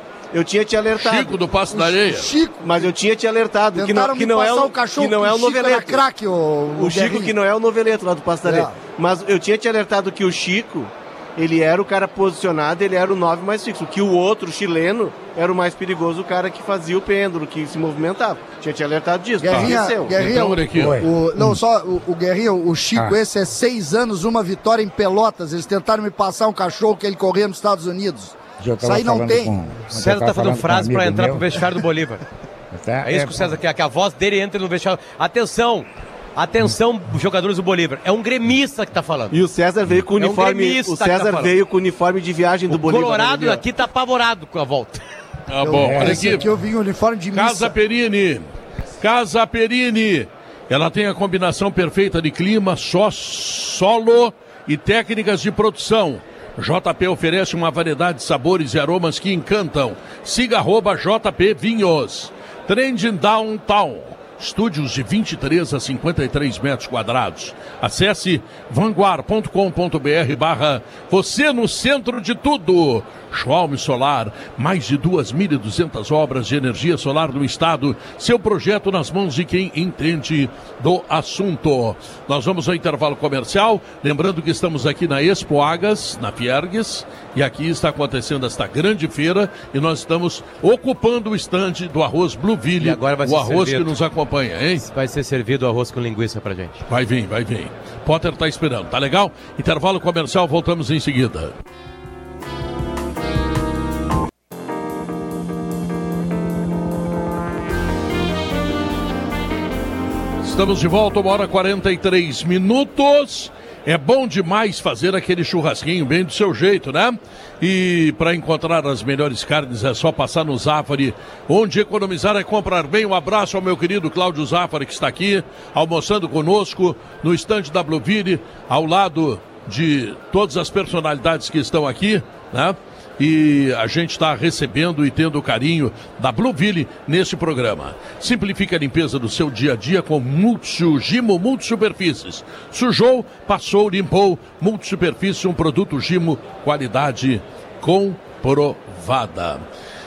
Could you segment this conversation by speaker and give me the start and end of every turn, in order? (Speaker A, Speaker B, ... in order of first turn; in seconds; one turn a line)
Speaker A: 0.3-1.5
Speaker B: 0.9-2.3
Speaker C: 1.7-2.9
Speaker A: 2.6-6.0
Speaker C: 3.7-7.3
Speaker A: 6.7-20.2
Speaker C: 8.4-8.8
Speaker C: 19.4-29.5
Speaker B: 19.5-21.0
Speaker D: 20.7-21.6
Speaker D: 28.6-31.4
Speaker E: 29.9-32.2
Speaker D: 32.7-33.5
Speaker E: 33.0-39.3
Speaker A: 39.3-43.6
Speaker E: 40.2-41.5
Speaker E: 42.7-45.0
Speaker B: 45.5-46.5
Speaker C: 45.6-47.7
Speaker D: 45.8-46.4
Speaker B: 47.3-48.5
Speaker B: 49.0-94.8
Speaker E: 92.8-93.9
Speaker E: 94.8-96.8
Speaker B: 96.9-101.5
Speaker B: 110.4-149.6